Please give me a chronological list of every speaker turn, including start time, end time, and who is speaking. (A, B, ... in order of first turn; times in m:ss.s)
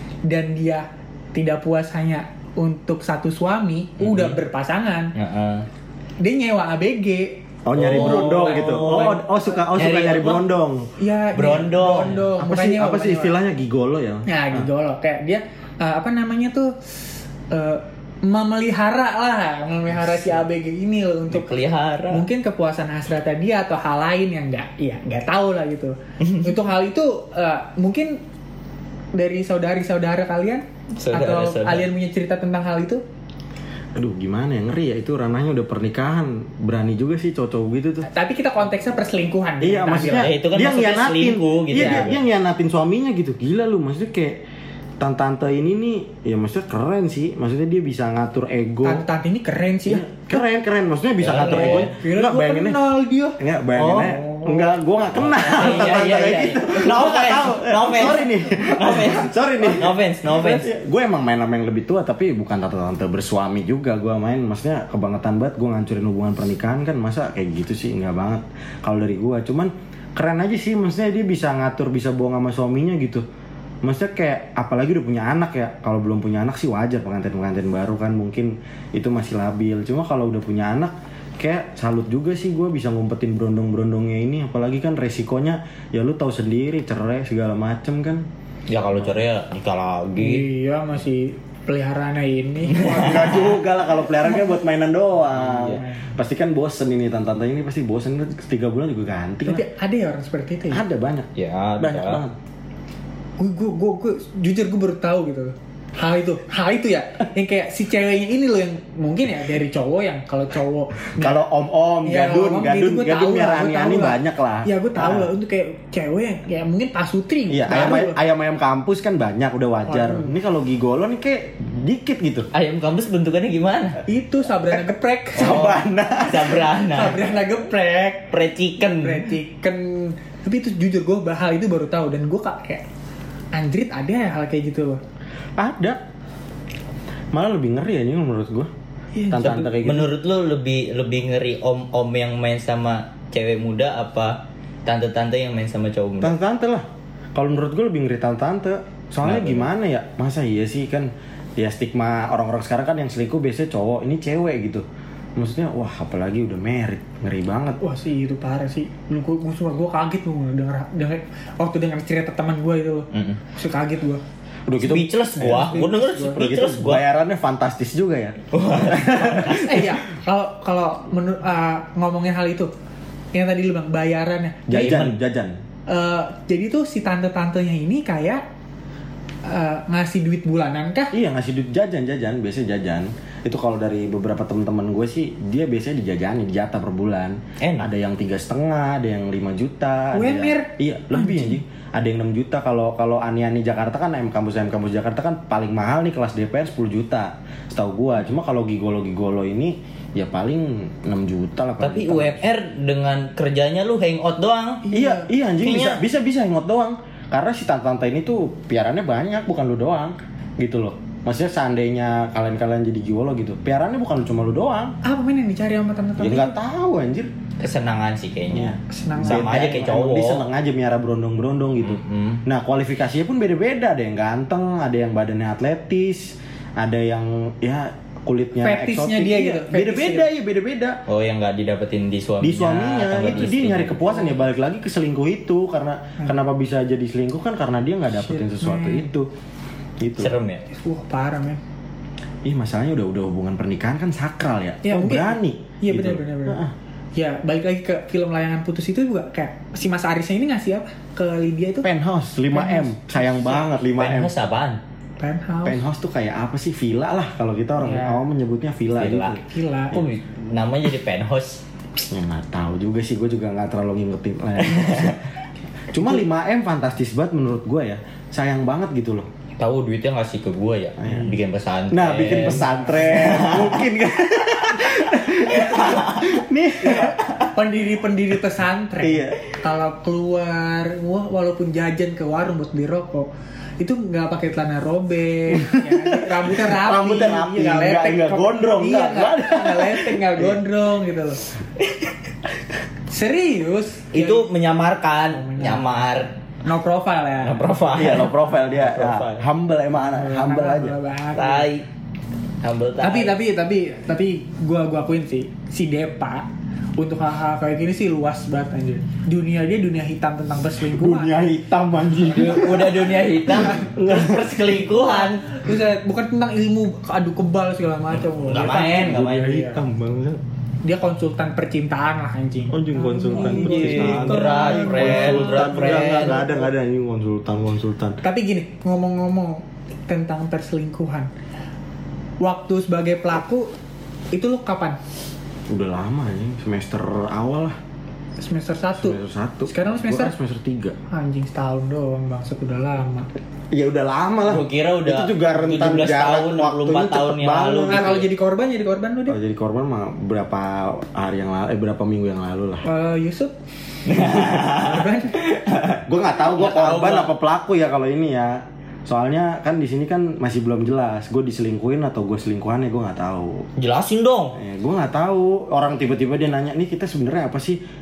0:00.3-0:05.1 A
0:04.0-0:04.4 B
0:05.2-0:05.7 B
0:06.2-0:09.3 A
0:07.6-0:10.9 C
0:07.8-0:09.2 B
0:09.7-0:10.5 B
0:11.0-0:13.4 A
0:11.3-0:12.3 B
0:12.4-0:14.7 C
0:14.3-0:16.8 A
0:17.5-0:21.6 A
0:21.3-0:22.2 B
0:22.1-0:28.2 A
0:26.2-0:26.5 B
0:29.2-0:33.0 A
0:31.0-0:31.9 B
0:34.0-0:38.1 C
0:38.0-0:40.3 A
0:39.6-0:44.4 C
0:40.1-0:42.2 B
0:41.8-0:42.1 A
0:45.0-0:49.0 C
0:48.8-0:50.4 A
0:49.9-1:13.2 C
0:51.2-0:51.9 B
0:51.3-0:54.7 A
0:53.8-0:54.1 B
0:55.2-1:00.7 B
1:13.8-1:28.2 C
1:28.7-1:30.5 B
1:30.2-1:33.6 A
1:32.7-1:33.4 B
1:32.9-1:39.7 C
1:35.4-1:35.8 B
1:35.6-1:36.1 A
1:39.5-1:40.8 A
1:40.7-1:41.3 C
1:41.4-1:42.2 B
1:41.8-1:42.3 C
1:43.4-1:51.4 A
1:51.2-1:55.3 C
1:52.0-1:58.2 A
1:57.5-2:02.5 C
1:59.9-2:00.4 A
2:02.5-2:04.0 B
2:04.1-2:05.8 A
2:05.4-2:06.7 C
2:05.4-2:07.3 B
2:06.7-2:08.3 A
2:08.3-2:09.3 B
2:08.9-2:12.8 A
2:13.5-2:15.0 A
2:15.6-2:16.0 C
2:17.3-2:18.7 C
2:19.1-2:19.8 A
2:19.3-2:20.1 C
2:19.8-2:26.4 B
2:26.2-2:34.8 C
2:29.2-2:29.7 B
2:35.4-2:37.8 C
2:37.8-2:44.2 A
2:43.1-2:43.4 B
2:44.7-2:49.9 C
2:44.8-2:47.0 B
2:45.5-2:46.4 A
2:48.5-2:49.8 B
2:49.4-2:52.7 A
2:53.3-2:55.0 A
2:54.7-2:55.6 C
2:54.7-2:55.2 B
2:55.9-2:58.4 A
2:59.4-3:01.2 A
3:01.1-3:22.4 C
3:07.6-3:07.9 B
3:10.1-3:11.6 A
3:21.8-3:24.8 B
3:24.8-3:25.3 A
3:24.9-3:35.0 C
3:25.6-3:26.0 B
3:35.0-3:36.6 A
3:36.2-3:37.3 C
3:37.6-3:40.4 B
3:38.5-3:51.0 C
3:38.9-3:39.7 A
3:41.8-3:42.4 B
3:48.6-3:50.3 A
3:51.1-3:54.3 B
3:52.4-3:59.3 C
3:58.2-3:59.1 A
4:00.0-4:00.3 C
4:00.2-4:00.6 B
4:00.7-4:01.6 A
4:02.4-4:06.7 C
4:04.8-4:06.6 A
4:07.2-4:11.9 A
4:11.8-4:14.3 C
4:12.5-4:13.7 A
4:14.0-4:14.8 B
4:15.2-4:15.8 A
4:15.6-4:19.4 C
4:17.8-4:18.2 A
4:19.0-4:21.6 B
4:19.4-4:20.0 A
4:22.1-4:25.2 C
4:24.6-4:25.2 B
4:25.9-4:29.3 C
4:26.0-4:26.2 A
4:29.6-4:33.9 B
4:31.0-4:31.4 C
4:31.9-4:37.2 C
4:35.5-4:36.3 B
4:36.8-4:51.4 A
4:39.0-4:39.4 C
4:45.5-4:50.6 C
4:53.1-4:54.5 A
4:54.1-4:56.3 B
4:55.3-4:55.8 A
4:56.6-4:57.6 A
4:57.4-4:59.4 B
4:57.9-5:01.0 C
5:00.0-5:01.7 A
5:01.4-5:01.8 B
5:02.6-5:03.4 B
5:03.0-5:11.4 A
5:10.8-5:14.5 C
5:12.2-5:15.6 B
5:15.4-5:19.8 A
5:18.3-5:19.6 B
5:18.7-5:20.4 C
5:20.8-5:26.7 A
5:22.7-5:28.2 C
5:23.3-5:26.5 B
5:28.2-5:31.3 A
5:32.4-5:33.7 A
5:34.3-5:35.0 A
5:35.7-5:37.8 C
5:38.4-5:40.4 A
5:39.0-5:41.0 C
5:41.1-5:43.3 A
5:43.7-5:48.2 C
5:44.5-5:48.3 B
5:47.9-5:49.4 A
5:49.3-5:52.8 C
5:52.8-5:53.5 A
5:54.1-5:57.3 B
5:54.1-5:55.4 A
5:56.0-6:03.7 C
6:03.8-6:04.6 B
6:04.6-6:07.8 C